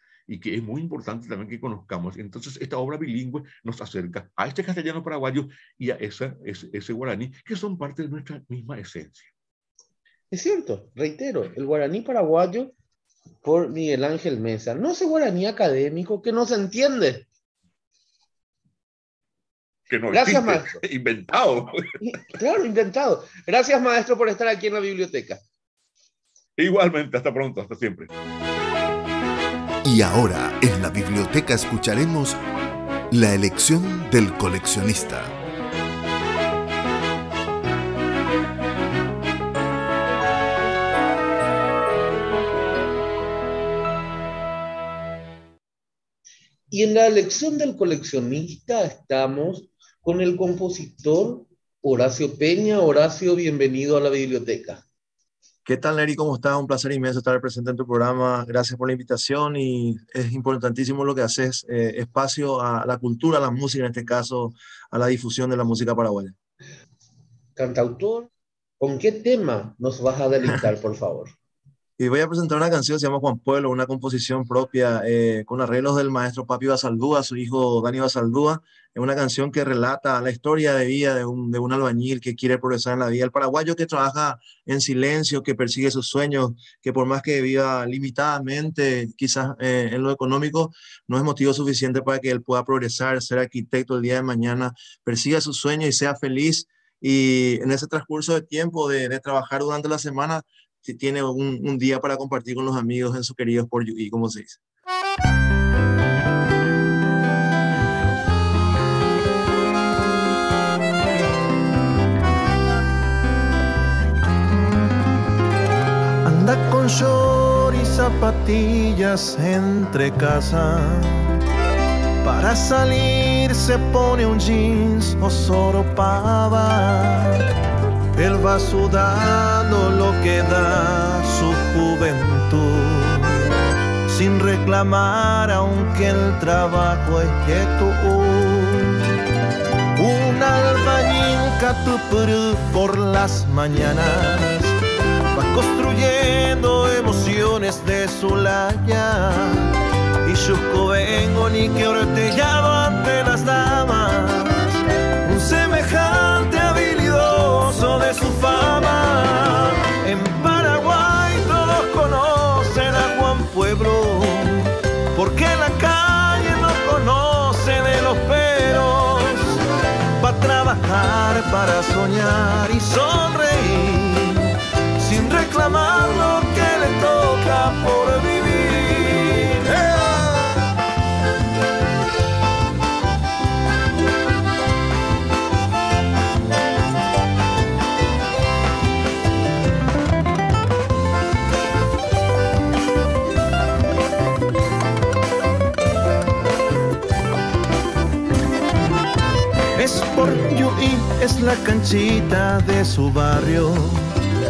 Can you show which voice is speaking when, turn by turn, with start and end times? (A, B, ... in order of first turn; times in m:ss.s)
0:00.3-0:09.3 A
0:10.3-0:12.7 B
0:13.4-0:17.3 B
0:19.9-0:22.0 A
0:20.1-0:20.8 B
0:22.0-0:25.4 B
0:26.6-0:28.1 A
0:29.8-0:32.4 C
0:33.1-0:35.3 C
0:46.7-0:54.8 B
0:55.6-1:06.3 D
1:07.6-1:11.4 B
1:12.0-1:44.6 D
1:56.2-2:01.4 E
2:02.2-2:07.4 E
2:08.1-2:13.5 E
2:14.0-2:19.0 E
2:20.0-2:24.8 E
2:25.3-2:49.6 E
2:50.2-3:00.6 E
3:19.8-3:24.2 E